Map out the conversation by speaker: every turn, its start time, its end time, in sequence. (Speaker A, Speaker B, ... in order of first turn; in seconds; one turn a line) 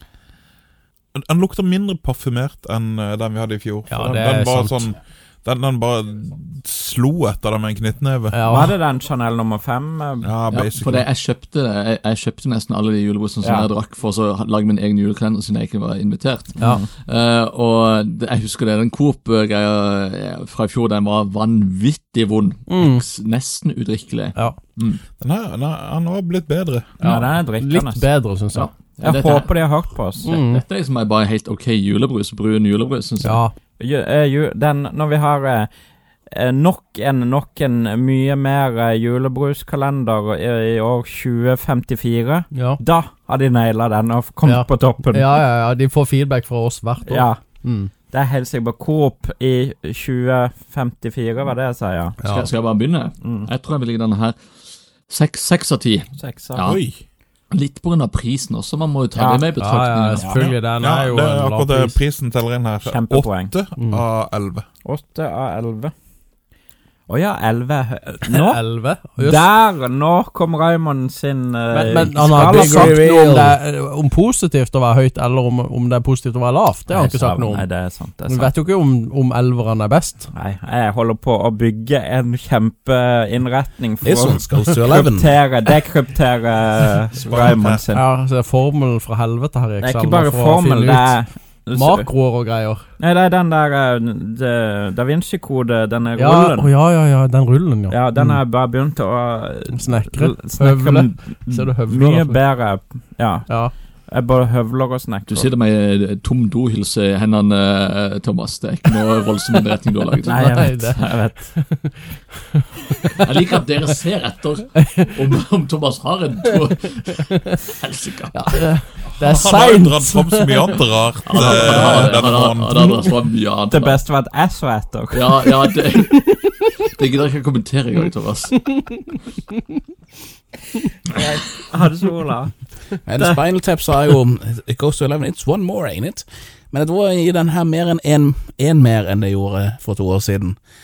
Speaker A: 1.1-8.4
Speaker B: 3.9-4.8
Speaker B: 8.3-8.8
Speaker C: 8.5-10.3
Speaker A: 10.2-11.1
Speaker D: 10.5-25.0
Speaker C: 13.4-13.7
Speaker C: 16.6-16.9
Speaker B: 22.7-23.1
Speaker A: 25.2-27.1
Speaker C: 27.0-28.1
Speaker B: 27.0-28.7
Speaker D: 28.5-29.5
Speaker C: 29.0-30.3
Speaker B: 30.2-30.6
Speaker D: 30.2-33.4
Speaker B: 33.2-33.5
Speaker C: 33.8-35.7
Speaker C: 36.3-45.4
Speaker B: 42.5-42.8
Speaker B: 44.4-47.9
Speaker C: 47.1-47.4
Speaker C: 48.1-52.2
Speaker B: 52.2-52.5
Speaker D: 52.2-54.4
Speaker C: 53.2-53.5
Speaker D: 55.1-56.8
Speaker C: 56.2-56.7
Speaker D: 57.5-60.3
Speaker C: 59.1-59.4
Speaker B: 59.6-62.0
Speaker C: 60.1-60.4
Speaker A: 60.3-64.7
Speaker C: 62.9-63.5
Speaker B: 63.8-64.0
Speaker C: 64.8-65.9
Speaker C: 67.1-68.6
Speaker B: 68.3-69.5
Speaker C: 69.2-73.6
Speaker B: 71.7-77.7
Speaker C: 76.9-78.5
Speaker B: 78.3-80.3
Speaker C: 80.3-88.0
Speaker E: 84.0-85.3
Speaker A: 87.3-87.8
Speaker B: 87.9-92.8
Speaker C: 89.8-92.1
Speaker C: 93.0-96.7
Speaker B: 96.2-98.4
Speaker C: 97.9-105.5
Speaker B: 99.7-102.5
Speaker B: 103.5-103.7
Speaker D: 105.3-110.7
Speaker C: 110.2-111.4
Speaker B: 110.4-113.2
Speaker D: 113.2-118.7
Speaker B: 118.3-120.8
Speaker A: 119.2-123.0
Speaker D: 121.3-124.0
Speaker C: 123.7-125.5
Speaker D: 125.1-128.6
Speaker C: 131.1-132.5
Speaker E: 133.1-140.6